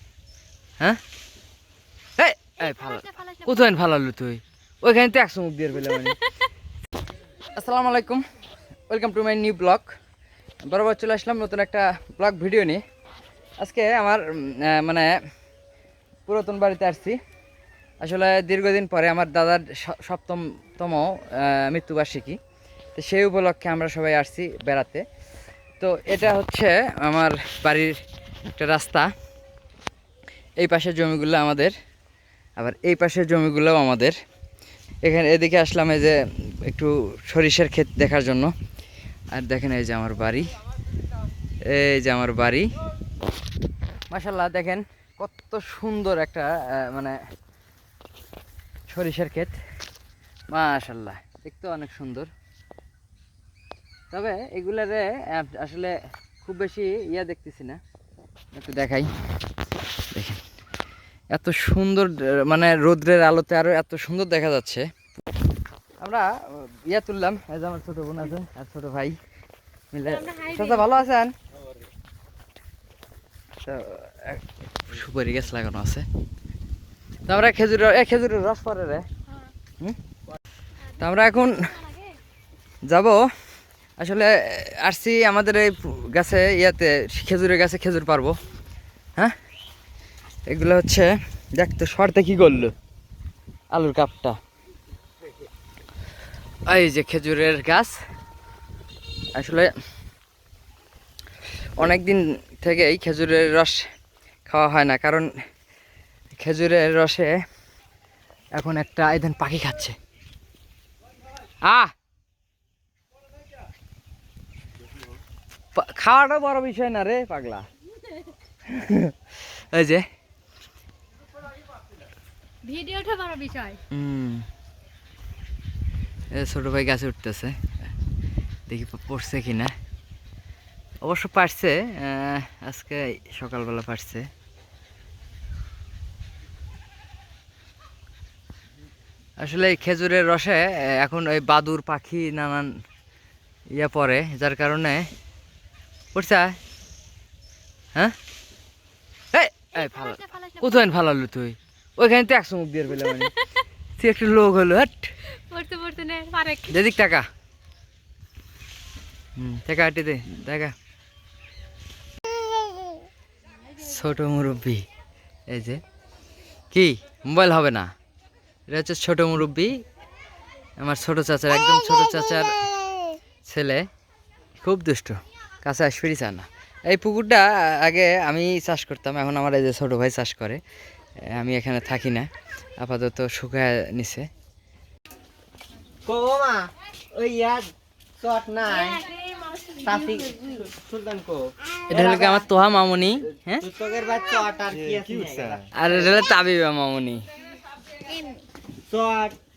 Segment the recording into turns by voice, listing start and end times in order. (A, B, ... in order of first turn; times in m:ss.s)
0:02.2-0:06.2 A
0:02.7-0:03.6 B
0:07.5-0:08.2 A
0:08.9-0:09.9 A
0:10.6-0:12.8 A
0:13.6-0:15.1 A
0:16.2-0:17.2 A
0:18.0-0:22.4 A
0:23.0-0:25.0 A
0:25.8-0:28.0 A
0:28.6-0:29.1 A
0:30.6-0:31.8 A
0:32.6-0:34.2 A
0:35.0-0:38.5 A
0:39.3-0:40.5 A
0:41.7-0:42.7 A
0:44.1-0:47.2 A
0:48.9-0:49.6 A
0:50.5-0:52.3 A
0:54.1-0:57.8 A
0:58.5-0:59.1 A
1:00.1-1:00.4 A
1:01.3-1:04.9 A
1:06.0-1:09.2 A
1:09.9-1:11.3 A
1:10.1-1:10.9 B
1:13.6-1:16.1 A
1:17.3-1:19.1 A
1:21.0-1:21.8 A
1:22.9-1:23.2 A
1:24.0-1:28.4 A
1:30.4-1:32.7 A
1:33.7-1:34.4 A
1:36.7-1:38.0 A
1:39.3-1:39.7 A
1:41.8-1:43.8 A
1:44.4-1:45.3 A
1:46.3-1:47.3 A
1:48.6-1:50.0 A
1:51.6-1:51.9 A
1:55.8-1:57.7 A
1:58.7-2:00.0 A
2:02.6-2:03.8 B
2:03.9-2:04.4 A
2:06.3-2:07.6 A
2:08.7-2:09.8 A
2:11.0-2:14.3 A
2:19.4-2:22.7 A
2:23.7-2:25.1 A
2:26.1-2:26.6 A
2:29.3-2:33.3 A
2:29.8-2:30.9 B
2:34.0-2:35.1 A
2:35.5-2:36.8 B
2:36.7-2:37.3 A
2:39.4-2:40.7 A
2:43.8-2:44.8 A
2:45.5-2:45.8 A
2:46.7-2:47.9 A
2:48.7-2:49.8 A
2:50.8-2:52.5 A
2:53.5-2:53.9 A
2:54.6-3:00.6 A
3:01.2-3:04.3 A
3:06.0-3:09.0 C
3:08.9-3:10.3 B
3:09.8-3:12.5 C
3:11.9-3:13.7 A
3:13.6-3:15.7 C
3:15.7-3:17.2 A
3:18.8-3:19.4 C